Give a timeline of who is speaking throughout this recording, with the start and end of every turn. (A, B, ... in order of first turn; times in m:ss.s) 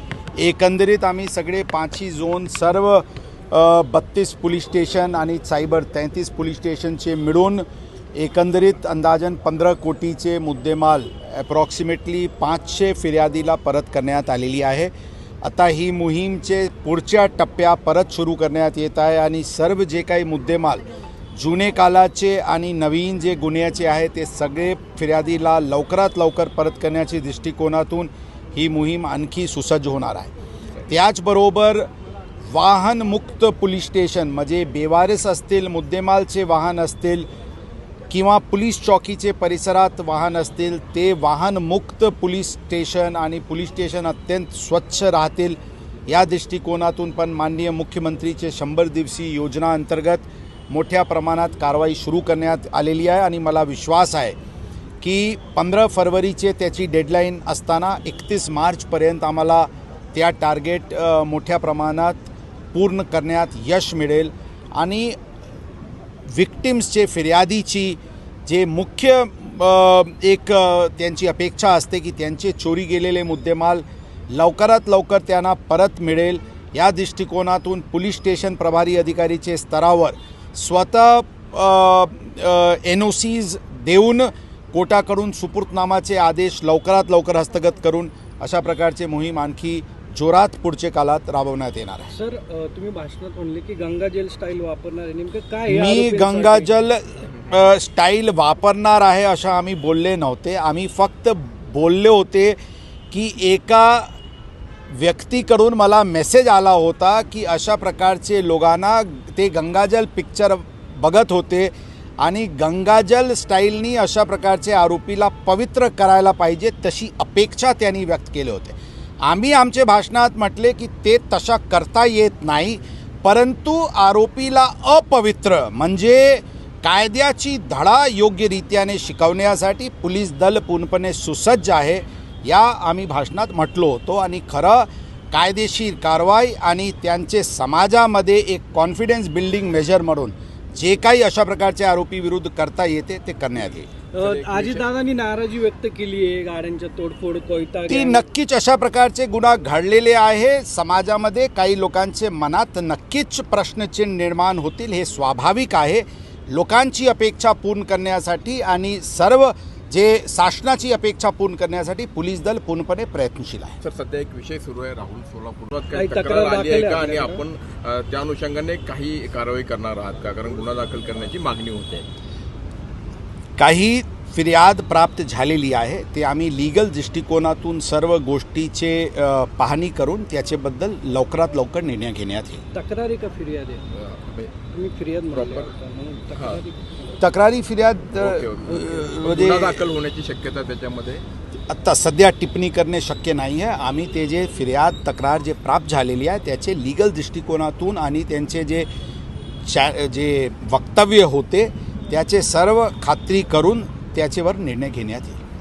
0:00.3-0:14.9 A
0:15.4-0:30.3 A
0:30.8-0:31.9 A
0:32.5-0:37.3 A
0:38.1-0:54.4 A
0:55.0-1:05.2 A
1:06.3-1:32.1 A
1:32.1-1:36.7 B
1:35.7-1:42.6 A
1:43.1-1:44.1 A
1:44.9-2:23.9 A
2:24.1-2:28.2 B
2:24.2-2:24.9 C
2:27.9-2:43.8 A
2:43.8-2:52.0 C
2:45.9-2:47.4 B
2:53.6-3:02.6 A
3:02.7-3:03.8 B
3:03.9-3:04.5 C
3:04.7-3:06.8 B
3:05.3-3:05.7 C
3:06.3-3:06.6 C
3:07.2-3:09.8 A
3:08.2-3:11.2 C
3:11.7-3:18.9 A
3:19.6-3:25.4 A